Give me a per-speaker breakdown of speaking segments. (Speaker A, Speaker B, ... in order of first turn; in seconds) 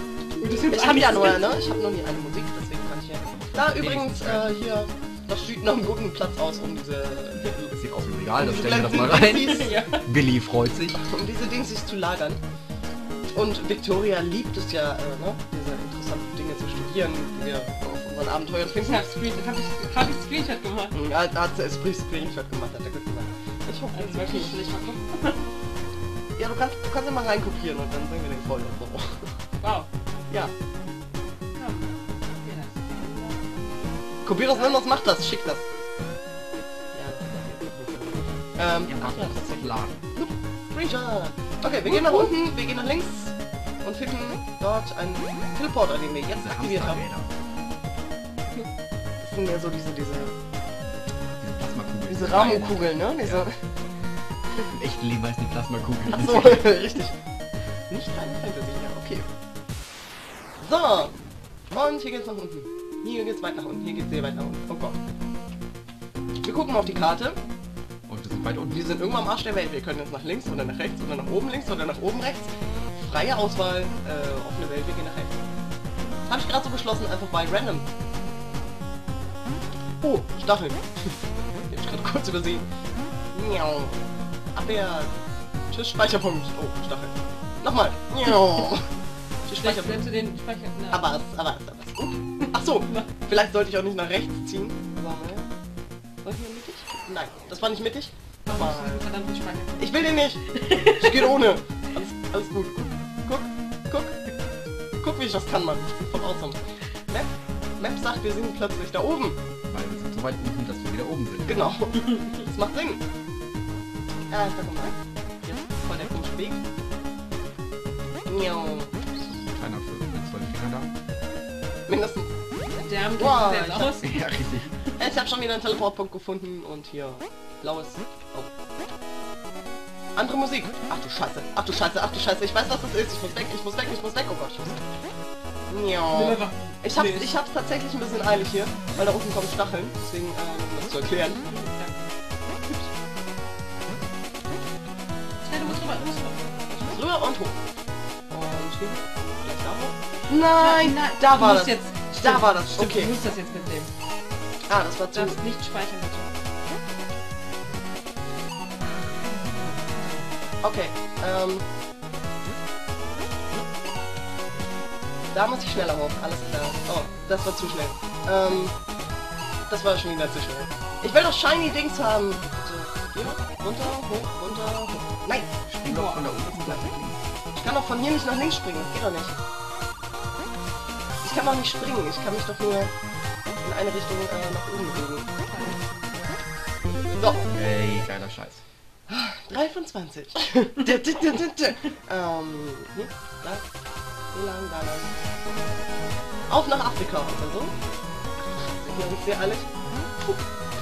Speaker A: 0.4-1.5, 9.2-10.1, 18.7-21.0, 23.9-25.5, 29.6-29.9, 31.6-33.5, 41.9-42.3, 89.6-91.0, 92.8-93.1, 98.5-101.3, 122.7-124.2, 136.1-137.4, 141.5-142.1, 145.4-147.0, 150.5-153.9, 155.1-156.3, 159.6-160.3, 175.9-176.8, 185.4-186.4
Speaker B: 0.7-7.7, 8.4-9.7, 11.0-12.4, 13.3-19.1, 20.9-24.6, 26.4-29.3, 34.2-35.7, 36.9-47.0, 49.2-50.3, 52.1-53.6, 56.1-57.1, 57.9-59.3, 60.6-61.1, 61.7-65.0, 66.4-67.4, 68.7-75.4, 76.3-77.9, 80.0-82.7, 83.3-85.1, 85.7-90.1, 90.9-95.5, 96.2-99.0, 99.8-104.2, 105.0-109.4, 111.5-113.0, 114.3-116.6, 118.2-119.0, 121.9-122.3, 123.2-124.0, 125.0-128.5, 130.2-134.9, 135.7-141.4, 146.8-147.6, 148.3-153.1, 154.7-155.4, 160.6-161.7, 165.3-168.8, 169.7-175.5, 177.5-179.4, 181.2-182.9, 183.6-185.3, 187.2-187.5, 189.1-193.6, 194.3-195.2, 196.5-197.8, 198.4-199.7
Speaker C: 3.2-4.5, 7.6-11.0, 38.9-40.0, 46.3-47.3, 51.4-53.5, 54.6-56.7, 68.1-68.9, 109.7-111.6, 119.2-120.9, 124.0-124.7, 175.7-177.2, 187.5-188.6